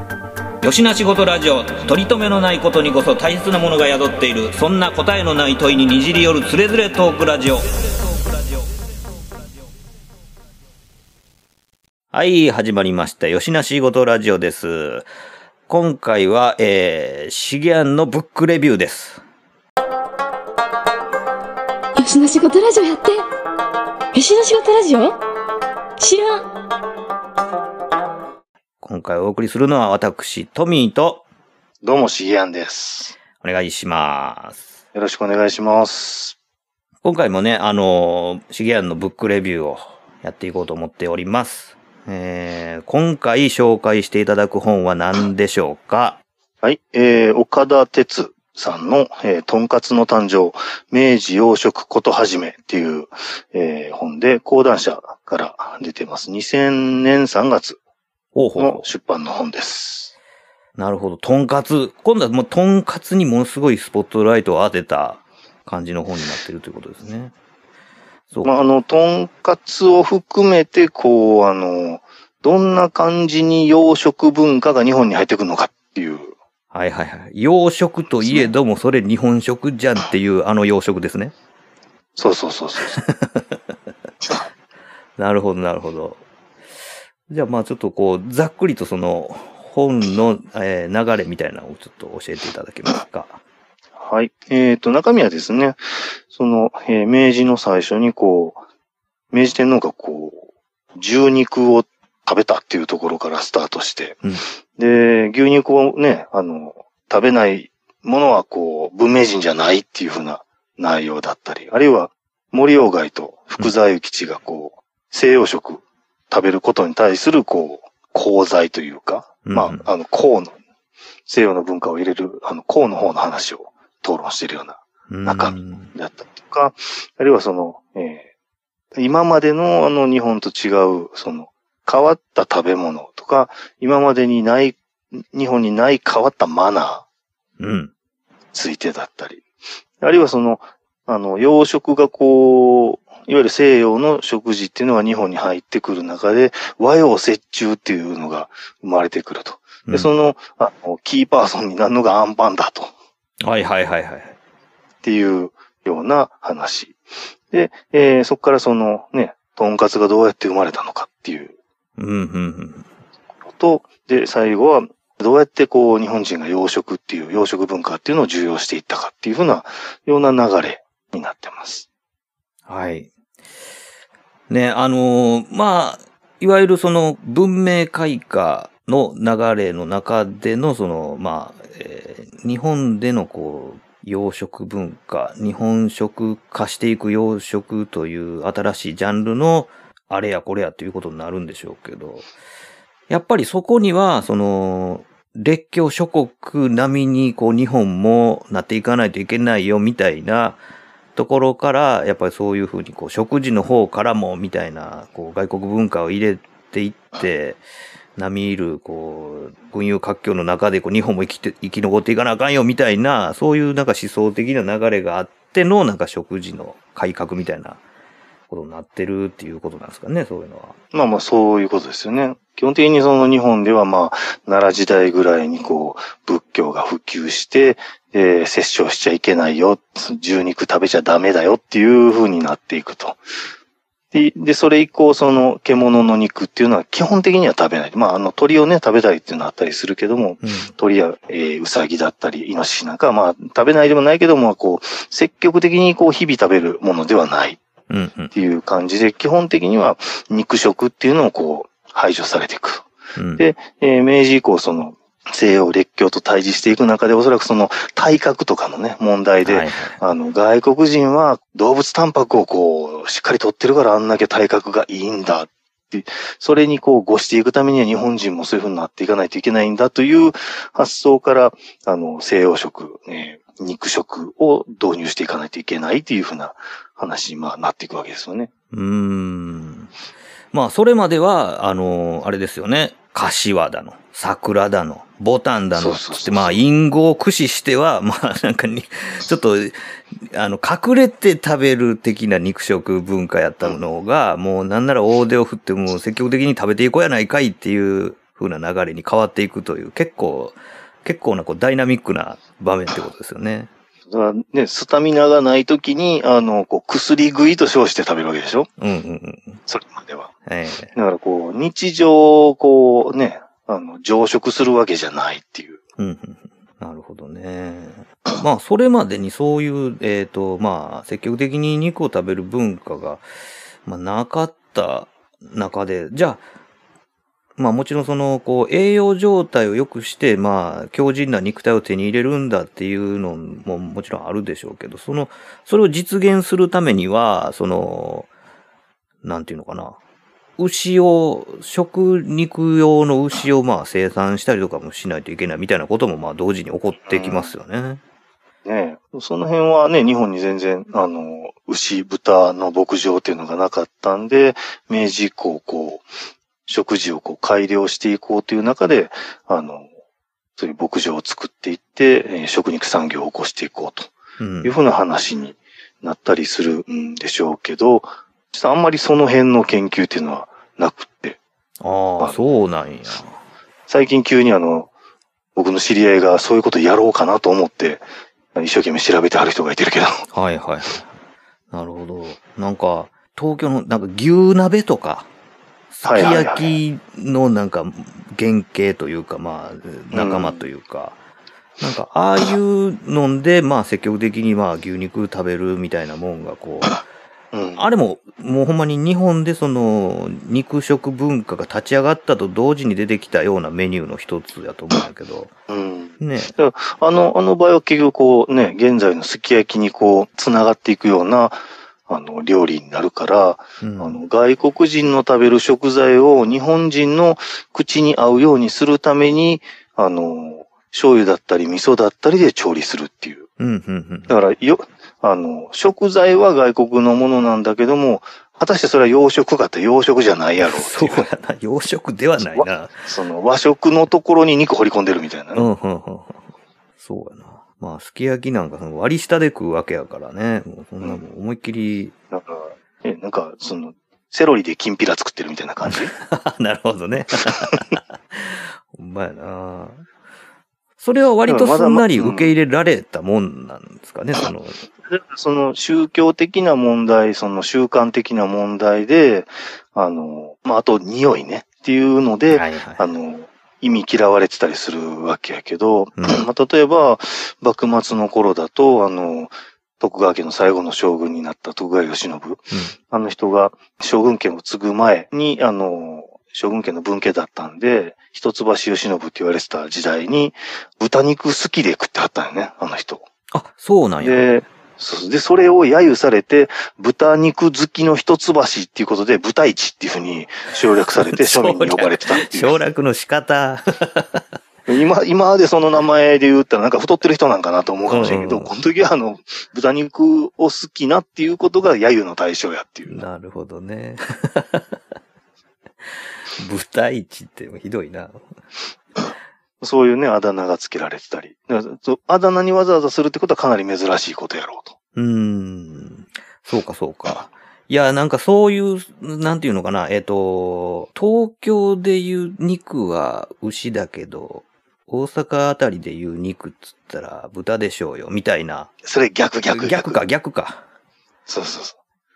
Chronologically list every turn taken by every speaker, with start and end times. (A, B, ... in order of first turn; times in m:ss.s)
0:00.6-0:07.9 A
0:12.1-0:15.1 A
0:15.7-0:19.2 A
0:22.0-0:23.2 B
0:24.1-0:25.2 B
0:26.0-0:26.4 B
0:28.8-0:31.2 A
0:31.8-0:33.2 C
0:33.4-0:34.6 A
0:34.9-0:36.4 C
0:37.0-0:46.2 A
0:46.6-0:57.8 C
0:58.3-0:58.8 A
0:58.6-1:00.1 C
1:00.8-1:07.3 A
1:08.4-1:16.3 C
1:16.7-1:21.3 A
1:18.2-1:18.5 C
1:22.2-1:23.0 C
1:22.8-1:23.7 A
1:25.2-1:26.2 A
1:27.3-1:33.4 A
1:34.0-1:38.6 C
1:39.3-1:44.2 C
1:44.8-2:00.6 C
1:59.5-1:59.8 A
2:01.3-2:08.3 C
2:05.1-2:05.9 A
2:09.0-2:17.0 C
2:17.6-2:17.9 A
2:18.5-2:19.4 C
2:20.0-2:32.9 C
2:33.4-2:34.4 A
2:35.0-2:37.0 C
2:37.5-2:41.5 C
2:42.0-2:42.9 A
2:43.5-2:51.9 C
2:52.7-2:53.1 A
2:54.5-3:12.3 A
3:13.1-3:20.6 A
3:21.2-3:27.6 A
3:28.2-3:37.8 A
3:38.5-3:40.8 A
3:40.9-3:53.2 C
3:54.1-4:07.6 C
4:00.4-4:00.7 A
4:07.9-4:08.3 A
4:08.3-4:38.5 C
4:13.2-4:13.4 A
4:19.4-4:20.0 A
4:38.7-4:39.9 A
4:40.5-5:03.7 A
4:45.8-4:46.6 C
5:04.1-5:08.7 C
5:08.8-5:09.6 A
5:09.7-5:10.3 C
5:10.5-5:10.9 A
5:10.9-5:15.8 C
5:16.0-5:23.2 A
5:23.8-5:26.4 A
5:27.6-5:38.3 A
5:39.2-5:40.0 A
5:40.6-5:48.0 A
5:47.1-5:47.5 C
5:48.6-5:56.0 C
5:56.7-5:59.9 C
6:00.6-6:04.1 C
6:04.4-6:04.7 A
6:04.6-6:11.4 C
6:11.8-6:13.4 A
6:13.9-6:14.9 C
6:15.6-6:18.0 C
6:18.6-6:20.2 C
6:20.3-6:21.0 A
6:21.7-6:25.3 A
6:25.9-6:31.2 A
6:26.0-6:26.8 C
6:30.1-6:30.7 C
6:31.8-6:37.0 A
6:37.5-6:37.9 C
6:37.8-6:45.5 A
6:45.7-7:03.5 C
6:46.2-6:46.5 A
6:53.8-6:54.2 A
7:03.6-7:04.4 A
7:04.3-7:11.3 C
7:10.6-7:13.0 A
7:12.5-7:15.7 C
7:15.6-7:16.4 A
7:17.0-7:22.1 A
7:22.3-7:26.1 C
7:25.9-7:30.0 A
7:31.0-7:34.8 A
7:31.5-7:32.5 C
7:35.1-8:03.3 C
7:42.5-7:43.1 A
7:46.2-7:46.4 A
8:03.5-8:04.4 A
8:04.2-8:12.8 C
8:11.2-8:14.4 A
8:14.9-8:23.2 C
8:18.1-8:18.7 A
8:23.1-8:25.0 A
8:26.0-8:28.4 A
8:29.8-8:35.0 C
8:35.2-8:48.9 A
8:49.0-8:50.2 C
8:49.7-8:50.8 A
8:51.5-8:52.0 C